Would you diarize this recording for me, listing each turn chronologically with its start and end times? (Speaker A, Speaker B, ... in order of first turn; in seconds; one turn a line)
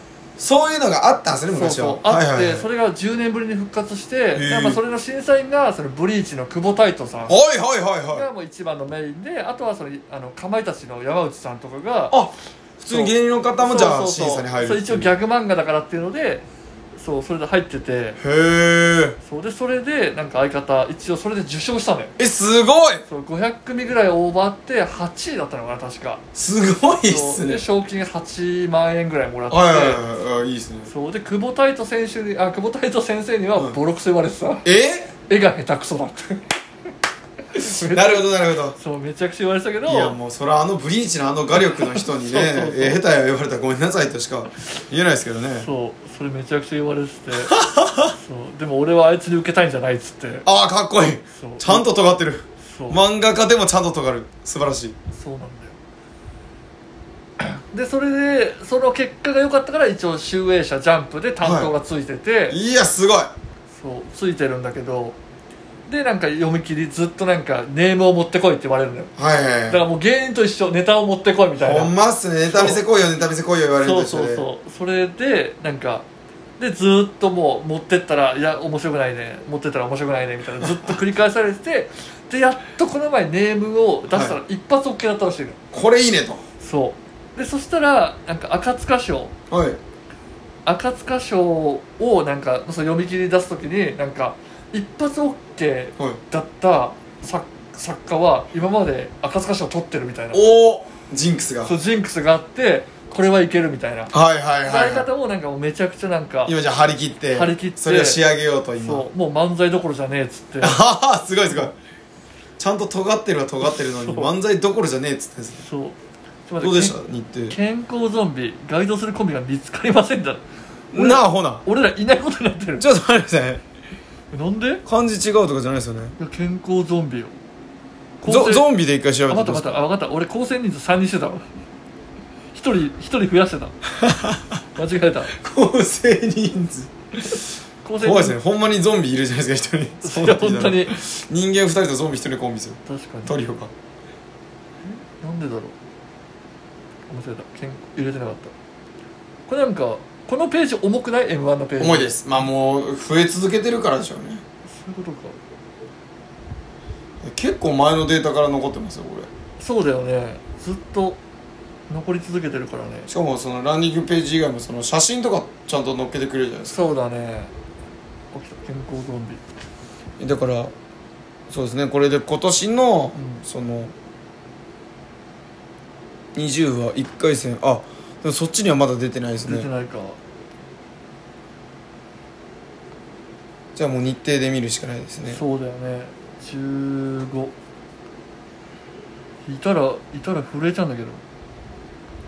Speaker A: 0.4-2.7
Speaker B: 1.5-7.4
Speaker A: 4.3-4.8
Speaker A: 7.3-8.3
Speaker B: 8.1-12.2
Speaker A: 12.1-15.2
Speaker B: 12.9-18.2
Speaker A: 18.2-19.2
Speaker B: 19.2-22.1
Speaker A: 22.2-23.0
Speaker B: 23.1-26.2
Speaker A: 26.4-27.6
Speaker B: 27.1-30.0
Speaker A: 29.5-30.9
Speaker B: 30.9-34.6
Speaker A: 34.6-35.1
Speaker B: 35.3-36.4
Speaker B: 37.5-40.2
Speaker A: 37.6-38.8
Speaker A: 39.9-45.7
Speaker B: 41.8-43.0
Speaker B: 45.6-47.5
Speaker A: 47.3-48.1
Speaker B: 48.1-50.5
Speaker A: 50.4-55.0
Speaker B: 51.4-51.9
Speaker B: 52.6-53.0
Speaker B: 55.1-55.8
Speaker B: 57.4-62.6
Speaker A: 61.4-61.7
Speaker A: 62.5-63.3
Speaker B: 63.7-65.2
Speaker B: 65.9-69.1
Speaker A: 69.2-69.9
Speaker B: 69.7-71.9
Speaker A: 71.6-74.5
Speaker B: 72.5-72.8
Speaker B: 73.8-76.0
Speaker B: 76.6-85.6
Speaker A: 80.6-80.9
Speaker A: 84.1-84.4
Speaker A: 85.7-86.4
Speaker B: 86.6-89.3
Speaker A: 89.5-89.8
Speaker B: 90.7-100.5
Speaker A: 100.3-101.8
Speaker B: 101.7-104.1
Speaker A: 104.1-105.1
Speaker B: 104.6-106.5
Speaker A: 106.5-109.1
Speaker B: 107.3-108.2
Speaker B: 108.8-110.8
Speaker A: 110.6-111.7
Speaker A: 112.6-115.7
Speaker B: 113.6-114.3
Speaker B: 115.6-116.0
Speaker B: 116.5-117.0
Speaker A: 116.6-117.6
Speaker B: 117.5-120.4
Speaker A: 120.9-121.6
Speaker B: 120.9-122.9
Speaker A: 122.8-123.6
Speaker B: 124.3-124.8
Speaker A: 124.9-126.2
Speaker B: 126.2-127.3
Speaker B: 128.2-128.7
Speaker A: 128.2-129.8
Speaker B: 129.3-131.4
Speaker B: 132.5-133.8
Speaker A: 134.0-134.5
Speaker B: 134.8-135.3
Speaker A: 135.3-137.4
Speaker B: 137.8-138.4
Speaker A: 138.0-143.7
Speaker B: 140.0-141.0
Speaker B: 142.9-143.3
Speaker B: 145.2-145.8
Speaker B: 147.1-148.5
Speaker B: 149.5-152.1
Speaker A: 151.8-154.4
Speaker B: 154.7-155.4
Speaker A: 157.2-159.3
Speaker B: 159.6-161.2
Speaker B: 161.9-163.1
Speaker A: 163.1-166.8
Speaker B: 166.7-167.5
Speaker B: 168.3-169.4
Speaker A: 170.2-170.7
Speaker A: 171.5-173.9
Speaker B: 173.2-173.4
Speaker A: 176.3-179.7
Speaker B: 179.4-180.2
Speaker A: 183.8-185.4
Speaker B: 185.2-187.5
Speaker B: 189.4-191.2